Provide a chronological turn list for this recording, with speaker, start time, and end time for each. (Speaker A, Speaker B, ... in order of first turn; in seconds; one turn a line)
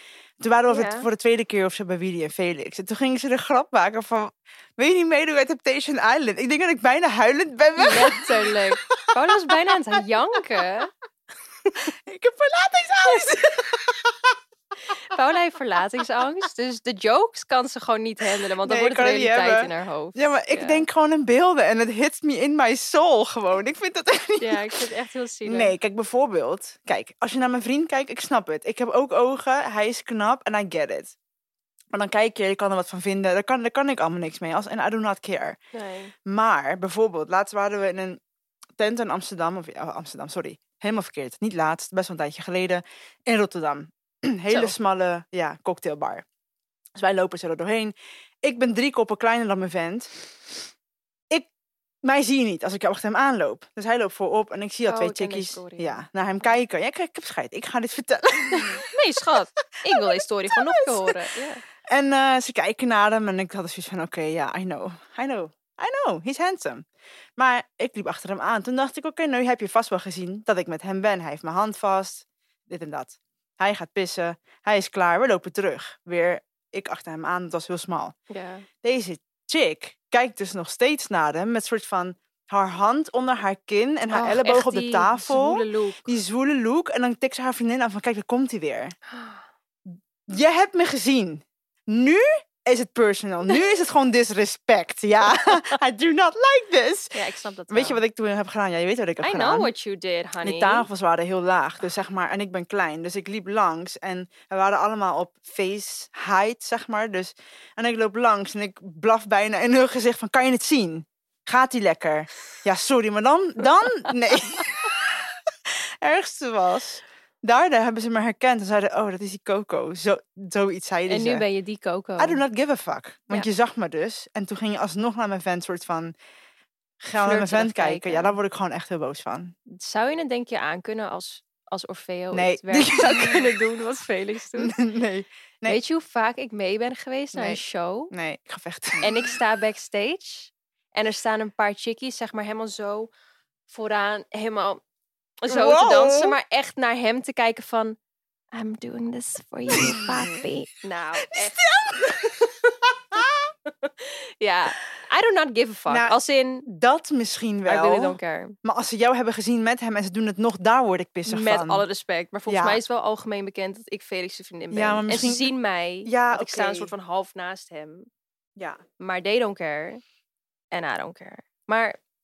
Speaker A: 0.4-9.1
Speaker B: 0.7-1.1
Speaker B: 7.8-10.9
Speaker A: 12.1-14.3
Speaker B: 15.1-20.9
Speaker A: 18.6-24.8
Speaker B: 24.4-25.7
Speaker A: 25.4-31.1
Speaker A: 31.9-35.6
Speaker B: 35.7-36.1
Speaker A: 36.2-38.2
Speaker A: 38.8-46.2
Speaker B: 44.5-44.7
Speaker A: 46.9-50.1
Speaker A: 52.0-58.8
Speaker B: 54.9-56.0
Speaker B: 58.5-61.6
Speaker A: 59.8-61.1
Speaker A: 61.8-66.8
Speaker A: 67.4-78.1
Speaker B: 78.3-78.7
Speaker A: 78.8-88.9
Speaker B: 84.1-86.2
Speaker B: 89.1-89.5
Speaker A: 90.3-97.1
Speaker B: 95.3-95.7
Speaker B: 97.1-98.0
Speaker A: 97.7-99.7
Speaker B: 99.2-100.9
Speaker A: 100.4-121.4
Speaker B: 121.1-122.4
Speaker A: 122.2-126.1
Speaker A: 127.0-129.5
Speaker B: 127.2-128.3
Speaker B: 129.7-134.7
Speaker A: 132.3-133.5
Speaker A: 134.5-135.8
Speaker B: 135.7-138.1
Speaker A: 137.3-137.6
Speaker A: 138.1-139.1
Speaker B: 139.0-143.1
Speaker B: 143.7-144.8
Speaker B: 145.4-148.0
Speaker A: 145.5-146.4
Speaker B: 148.5-151.6
Speaker A: 149.8-150.4
Speaker A: 151.3-153.5
Speaker B: 153.2-156.7
Speaker A: 155.9-161.8
Speaker B: 157.7-158.6
Speaker B: 161.2-168.1
Speaker A: 162.5-162.8
Speaker A: 164.7-165.5
Speaker A: 166.1-166.9
Speaker B: 169.0-170.0
Speaker B: 170.7-172.0